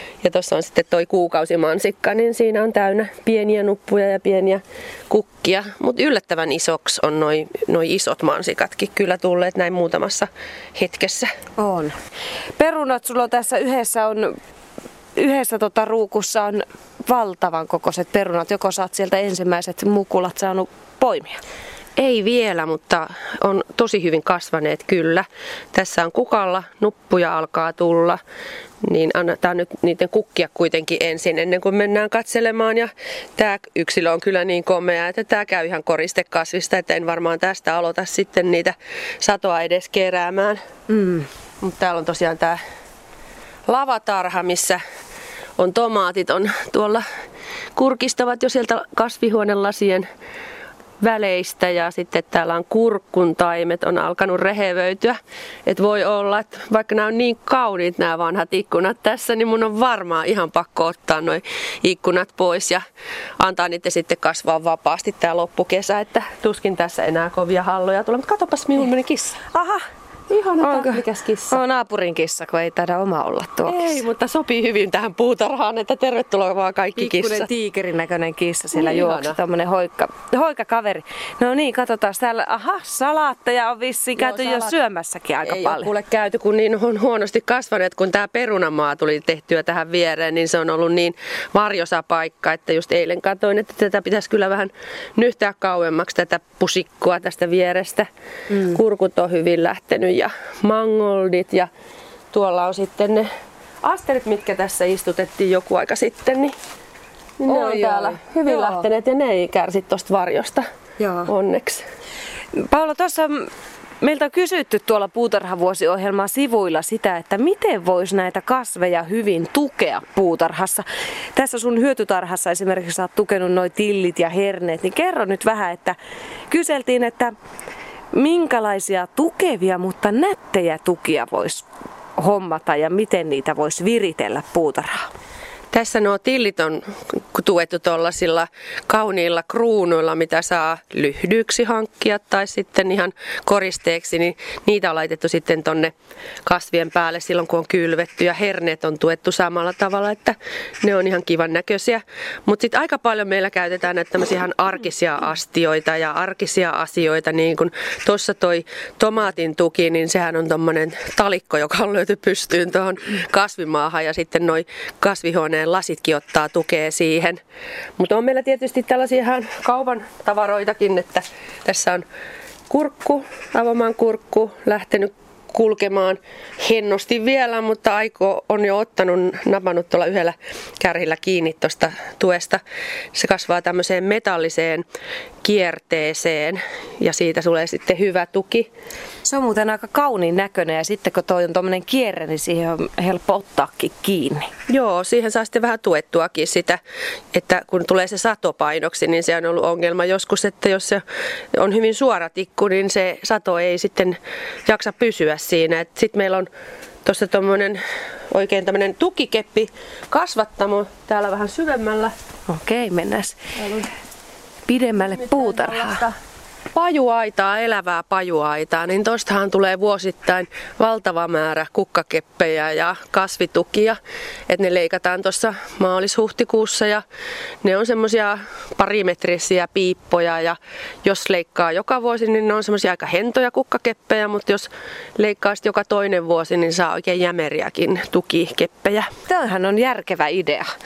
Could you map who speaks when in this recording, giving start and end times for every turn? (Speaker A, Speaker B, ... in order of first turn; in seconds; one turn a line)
Speaker A: 0.2-11.3
Speaker B: 11.6-12.0
Speaker B: 12.6-14.4
Speaker B: 15.2-21.4
Speaker A: 22.0-28.2
Speaker A: 28.8-40.6
Speaker B: 40.9-41.3
Speaker A: 41.6-42.6
Speaker A: 43.7-44.8
Speaker A: 45.6-47.0
Speaker A: 47.8-50.1
Speaker A: 51.0-62.9
Speaker A: 63.4-69.4
Speaker B: 69.5-69.9
Speaker A: 70.3-71.6
Speaker B: 70.6-74.0
Speaker A: 73.7-77.5
Speaker B: 77.0-85.9
Speaker A: 78.7-79.4
Speaker A: 84.2-84.8
Speaker A: 85.4-101.7
Speaker A: 102.3-103.3
Speaker A: 103.8-106.5
Speaker A: 107.4-110.7
Speaker B: 107.5-108.9
Speaker B: 111.0-111.3
Speaker A: 111.3-111.8
Speaker B: 112.5-113.5
Speaker B: 114.0-126.0
Speaker B: 126.5-127.3
Speaker B: 128.1-131.7
Speaker B: 132.2-135.1
Speaker A: 135.7-145.9
Speaker A: 146.4-167.4
Speaker A: 168.0-172.1
Speaker A: 172.7-182.6
Speaker A: 183.1-184.9
Speaker A: 185.4-188.7
Speaker B: 189.2-194.5
Speaker A: 194.7-196.8
Speaker A: 197.3-206.5
Speaker A: 207.1-212.1
Speaker B: 212.5-213.4
Speaker A: 213.6-213.9
Speaker B: 214.7-216.0
Speaker A: 215.0-216.2
Speaker A: 216.7-224.0
Speaker A: 224.5-227.0
Speaker A: 227.6-239.1
Speaker B: 239.3-240.7